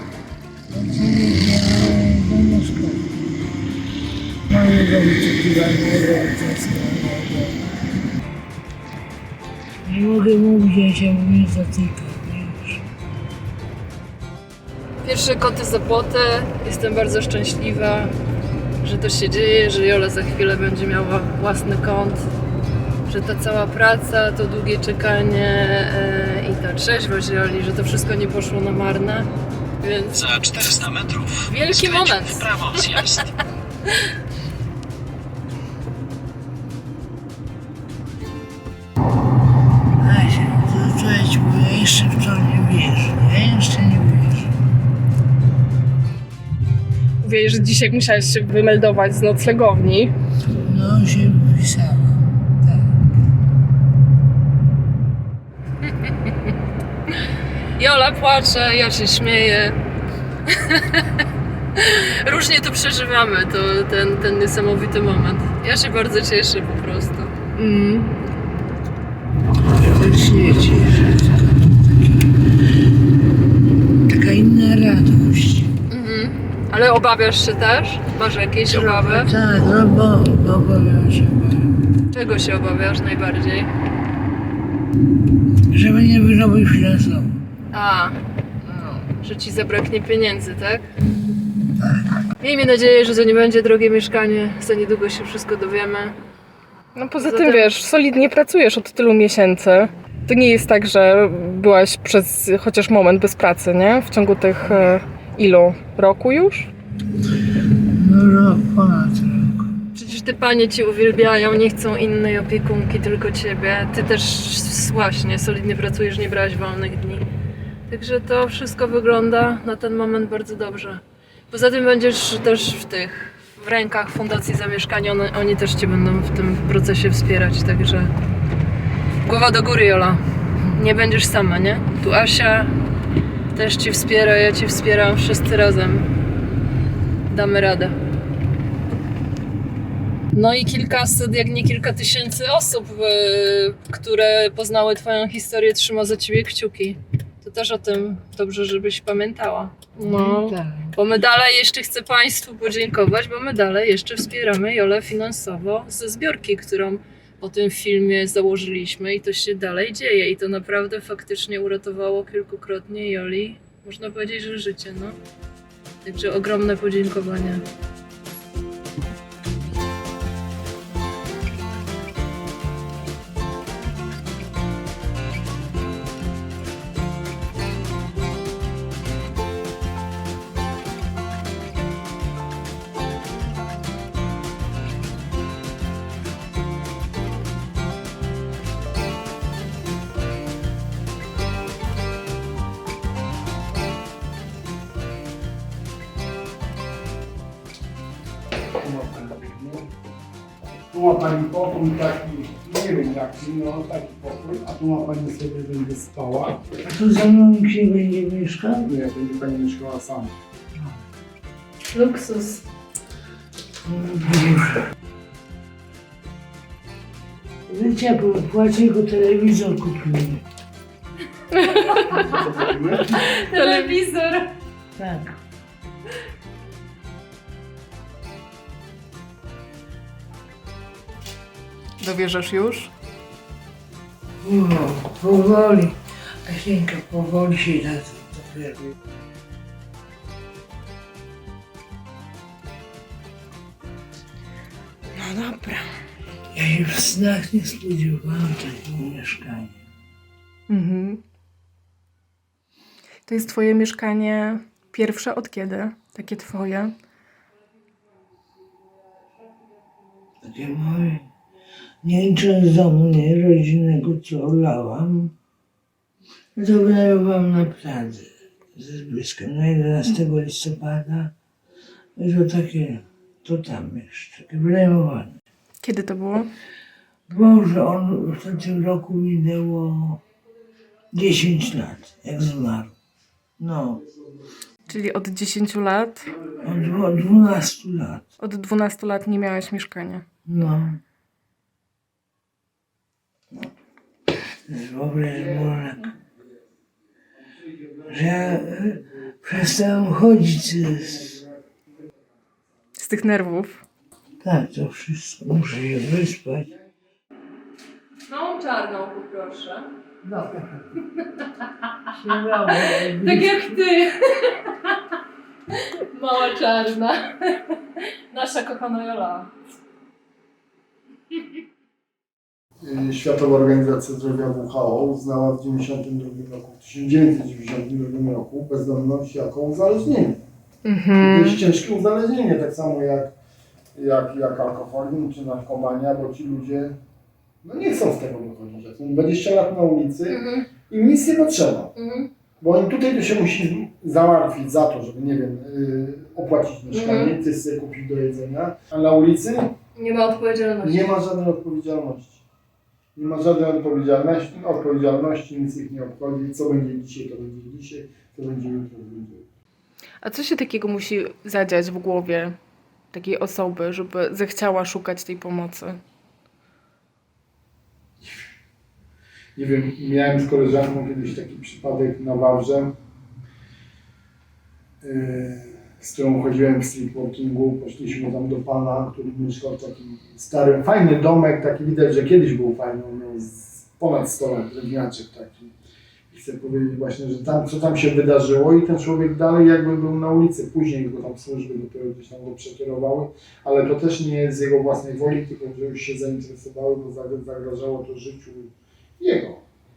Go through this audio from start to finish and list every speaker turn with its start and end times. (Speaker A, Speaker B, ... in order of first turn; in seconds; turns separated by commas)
Speaker A: 0.7-3.1, Speaker A: 4.5-7.6, Speaker A: 9.8-12.8, Speaker B: 15.0-18.1, Speaker B: 18.8-22.2, Speaker B: 23.1-29.3, Speaker B: 29.8-30.3, Speaker C: 30.1-33.2, Speaker B: 31.4-33.2, Speaker A: 40.0-44.6, Speaker D: 47.2-50.1, Speaker A: 50.6-52.2, Speaker B: 55.9-56.3, Speaker B: 57.8-59.8, Speaker B: 60.5-67.5, Speaker D: 67.6-68.1, Speaker A: 69.7-72.4, Speaker A: 74.0-75.7, Speaker B: 75.9-79.3, Speaker A: 78.7-81.7, Speaker B: 82.1-83.7, Speaker A: 85.7-87.4, Speaker B: 87.7-90.9, Speaker B: 92.4-96.1, Speaker D: 96.9-106.7, Speaker B: 97.2-97.7, Speaker A: 107.7-109.7, Speaker B: 109.9-117.2, Speaker B: 117.9-128.1, Speaker B: 129.2-130.2, Speaker B: 130.7-132.7, Speaker B: 133.5-136.1, Speaker B: 137.3-137.9, Speaker B: 140.3-165.2, Speaker A: 150.0-150.9, Speaker B: 166.0-167.6, Speaker E: 198.8-199.9, Speaker E: 200.9-206.7, Speaker A: 206.8-208.9, Speaker E: 208.8-210.4, Speaker B: 211.9-212.6, Speaker A: 213.8-214.8, Speaker A: 217.7-220.4, Speaker B: 221.5-222.6, Speaker E: 222.4-223.2, Speaker B: 223.2-224.5, Speaker D: 223.5-223.9, Speaker A: 225.0-225.4, Speaker D: 232.0-232.9, Speaker A: 234.4-238.9, Speaker D: 245.1-245.9, Speaker A: 246.5-249.8, Speaker D: 250.7-251.2, Speaker D: 253.3-256.9, Speaker A: 260.4-261.3, Speaker A: 262.0-265.3, Speaker A: 266.6-271.3, Speaker A: 272.2-275.3, Speaker D: 275.8-276.5, Speaker A: 277.3-280.2, Speaker A: 281.1-282.9, Speaker A: 283.6-284.0, Speaker D: 284.9-286.3, Speaker A: 286.5-288.2, Speaker D: 288.4-290.2, Speaker A: 290.4-291.0, Speaker A: 294.7-296.1, Speaker E: 297.8-298.1, Speaker A: 298.1-301.4, Speaker D: 303.0-303.8, Speaker A: 304.4-306.7, Speaker B: 308.3-309.9, Speaker A: 310.2-310.6, Speaker A: 312.1-313.8, Speaker B: 313.1-314.9, Speaker B: 315.7-319.5, Speaker E: 322.8-330.4, Speaker D: 330.8-331.6, Speaker E: 331.2-333.3, Speaker E: 333.9-336.9, Speaker E: 337.6-341.9, Speaker B: 340.3-340.7, Speaker B: 341.9-342.3, Speaker E: 342.6-349.7, Speaker B: 346.9-347.4, Speaker B: 349.9-351.1, Speaker E: 350.8-352.4, Speaker E: 353.1-359.4, Speaker D: 360.2-362.6, Speaker D: 363.1-366.0, Speaker E: 369.6-372.9, Speaker E: 375.0-385.7, Speaker E: 386.3-399.6